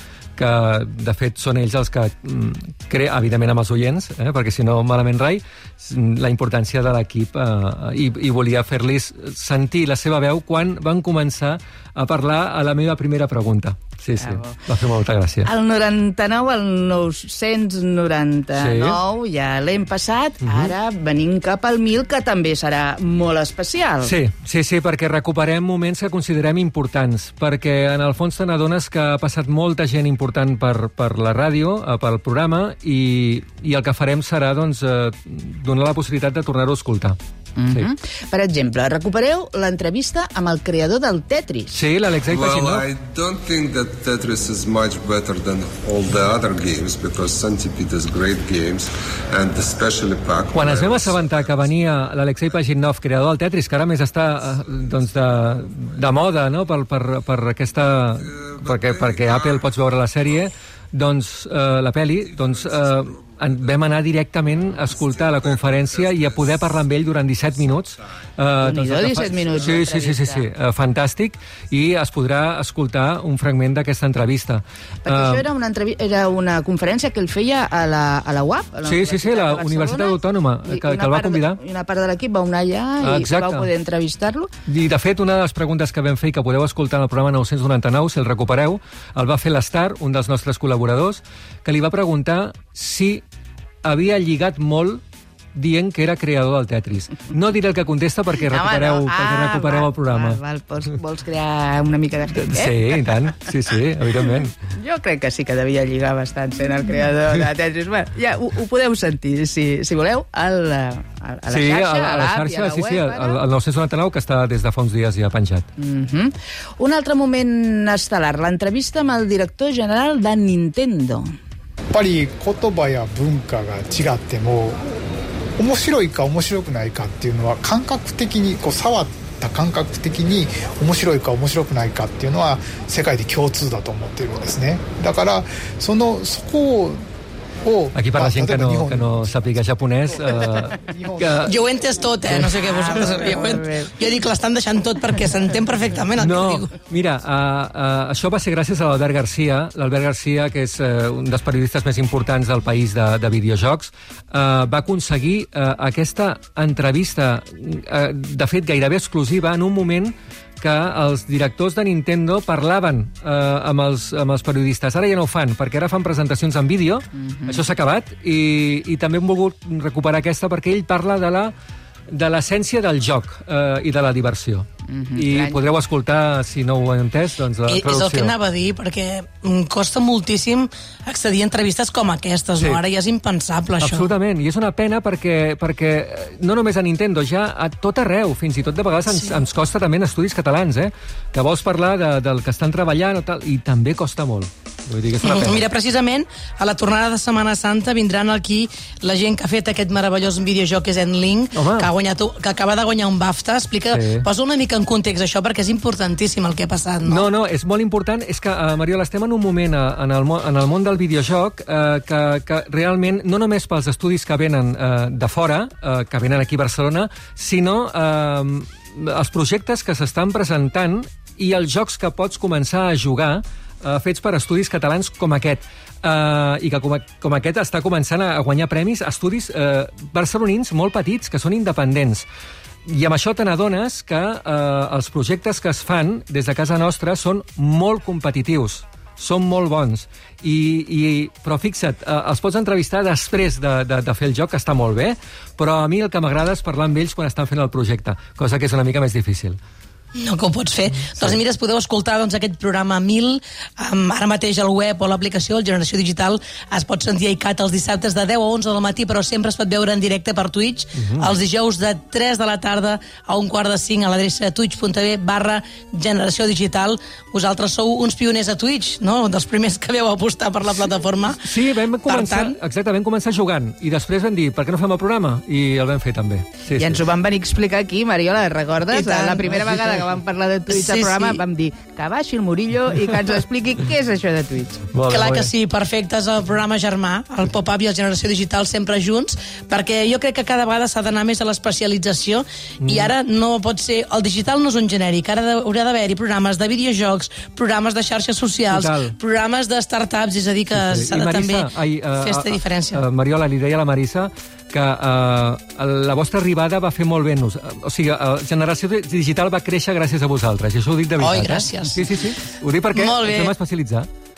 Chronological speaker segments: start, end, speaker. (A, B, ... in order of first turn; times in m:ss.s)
0:00.4-0:15.5 A
0:14.2-0:14.6 B
0:15.4-0:24.1 B
0:18.6-0:19.0 A
0:20.4-0:20.7 A
0:24.0-0:37.2 A
0:37.6-0:41.8 B
0:41.7-0:42.9 A
0:42.2-0:52.0 C
0:50.5-1:15.5 A
0:54.6-0:55.6 C
0:58.3-0:59.7 C
1:02.3-1:03.9 C
1:04.8-1:06.9 C
1:08.6-1:10.5 B
1:15.0-1:24.5 B
1:18.8-1:21.6 A
1:23.0-1:23.7 A
1:24.7-1:33.2 A
1:33.8-1:35.0 A
1:35.6-1:40.4 A
1:38.4-1:43.0 B
1:42.3-1:44.6 A
1:44.7-1:53.4 B
1:51.5-1:55.7 A
1:55.8-2:01.3 B
2:01.9-2:04.8 D
2:05.6-2:17.0 D
2:17.6-2:19.3 D
2:17.9-2:21.5 A
2:20.2-2:21.6 D
2:21.4-2:26.7 E
2:22.6-2:23.9 B
2:26.2-2:51.5 A
2:47.2-2:47.7 B
2:52.1-2:58.3 A
2:54.9-2:55.6 B
2:57.7-3:04.1 E
3:03.8-3:15.6 A
3:09.1-3:09.4 E
3:15.2-3:27.3 E
3:21.6-3:21.9 A
3:23.9-3:24.3 A
3:27.1-3:52.3 A
3:52.9-4:09.6 A
4:10.2-4:32.6 E
4:21.0-4:21.3 A
4:31.4-4:37.0 A
4:36.8-4:44.8 B
4:38.9-4:40.0 E
4:40.7-4:41.4 E
4:44.9-4:45.5 A
4:45.1-5:03.0 E
4:52.8-4:53.1 A
4:58.7-4:59.2 A
5:00.7-5:14.1 A
5:11.2-5:12.1 E
5:12.9-5:13.5 E